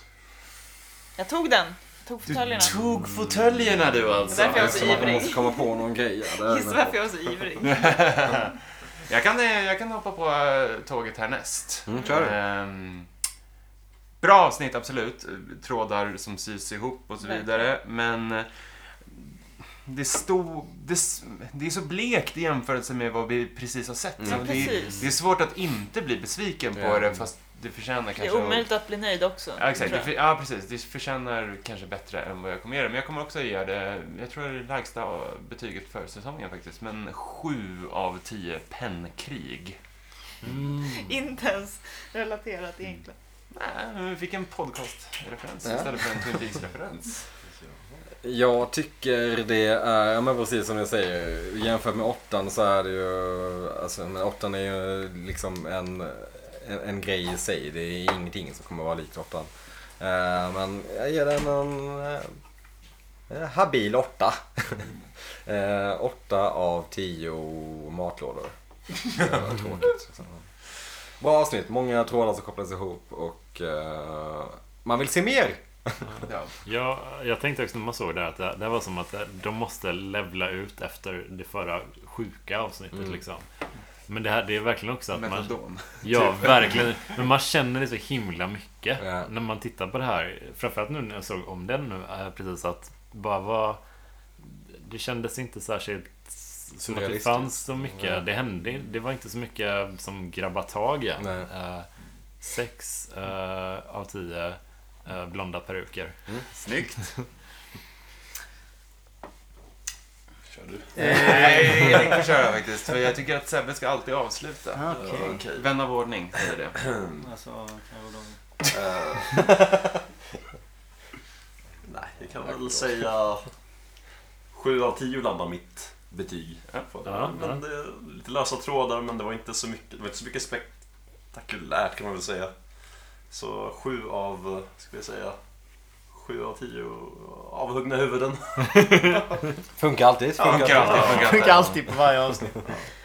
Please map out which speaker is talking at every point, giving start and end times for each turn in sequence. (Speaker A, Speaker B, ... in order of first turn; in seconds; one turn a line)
Speaker A: 1.2-2.9
Speaker B: 2.3-5.2
Speaker A: 4.3-5.7
Speaker C: 4.3-7.0
Speaker A: 6.3-8.1
Speaker B: 7.6-8.5
Speaker B: 9.1-13.1
Speaker C: 11.9-12.4
Speaker B: 14.2-19.3
Speaker A: 17.2-17.6
Speaker B: 19.9-28.7
Speaker C: 24.2-24.7
Speaker A: 24.3-25.1
Speaker C: 26.8-27.2
Speaker A: 28.1-30.1
Speaker B: 29.6-39.8
Speaker D: 40.4-41.1
Speaker A: 40.8-43.1
Speaker B: 43.5-47.2
Speaker C: 48.2-62.3
Speaker C: 63.3-64.9
Speaker C: 65.5-68.5
Speaker C: 69.0-70.4
Speaker C: 71.2-76.0
Speaker D: 76.1-83.5
Speaker B: 76.3-76.5
Speaker C: 82.9-83.2
Speaker D: 84.1-93.8
Speaker B: 85.2-86.7
Speaker C: 89.0-89.3
Speaker D: 94.4-101.9
Speaker C: 96.8-98.2
Speaker C: 101.2-101.5
Speaker D: 102.4-106.2
Speaker B: 106.6-107.0
Speaker E: 110.5-111.1
Speaker F: 111.0-112.2
Speaker B: 111.0-116.9
Speaker F: 114.7-115.4
Speaker E: 114.9-115.7
Speaker E: 116.8-117.2
Speaker F: 117.2-118.4
Speaker E: 118.7-119.7
Speaker E: 121.8-123.4
Speaker E: 124.5-130.8
Speaker D: 127.0-127.6
Speaker E: 131.3-132.5
Speaker E: 133.3-135.4
Speaker E: 136.1-139.4
Speaker C: 139.8-141.6
Speaker B: 140.4-141.7
Speaker E: 140.9-141.4
Speaker F: 141.0-142.6